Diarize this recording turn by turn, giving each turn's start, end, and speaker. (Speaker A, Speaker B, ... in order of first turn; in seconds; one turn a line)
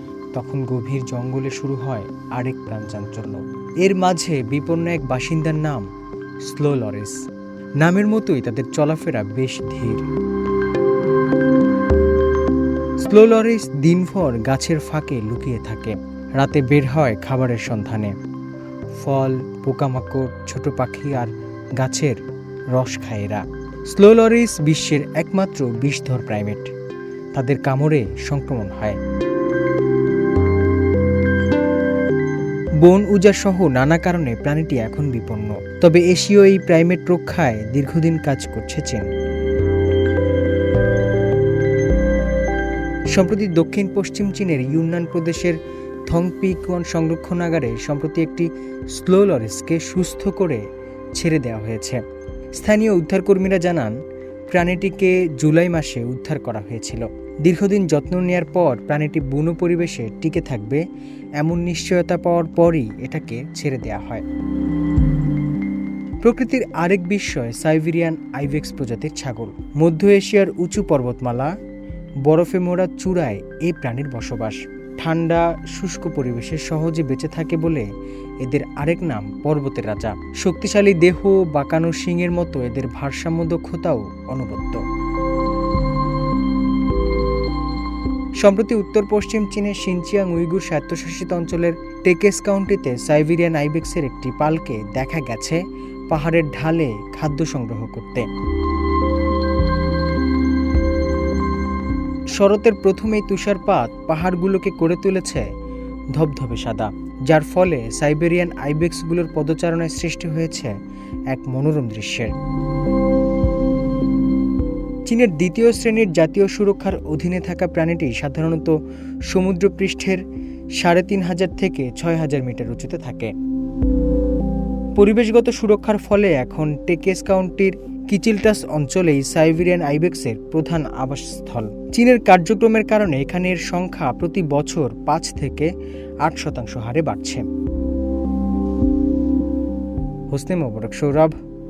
Speaker A: 0.3-5.9
Speaker A: 6.4-7.2
Speaker A: 7.8-10.0
Speaker A: 13.0-18.1
Speaker A: 19.0-22.2
Speaker A: 22.7-26.7
Speaker A: 27.3-29.0
Speaker A: 32.8-39.1
Speaker A: 43.1-52.0
Speaker A: 52.5-53.9
Speaker A: 54.5-60.8
Speaker A: 61.4-64.2
Speaker A: 66.2-71.5
Speaker A: 72.2-77.9
Speaker A: 78.4-84.8
Speaker A: 88.4-98.2
Speaker A: 102.3-105.5
Speaker A: 106.1-110.7
Speaker A: 111.3-112.3
Speaker A: 115.0-118.8
Speaker A: 119.3-120.2
Speaker A: 120.8-123.3
Speaker A: 125.0-135.7
Speaker A: 136.2-137.4
Speaker A: 140.3-141.3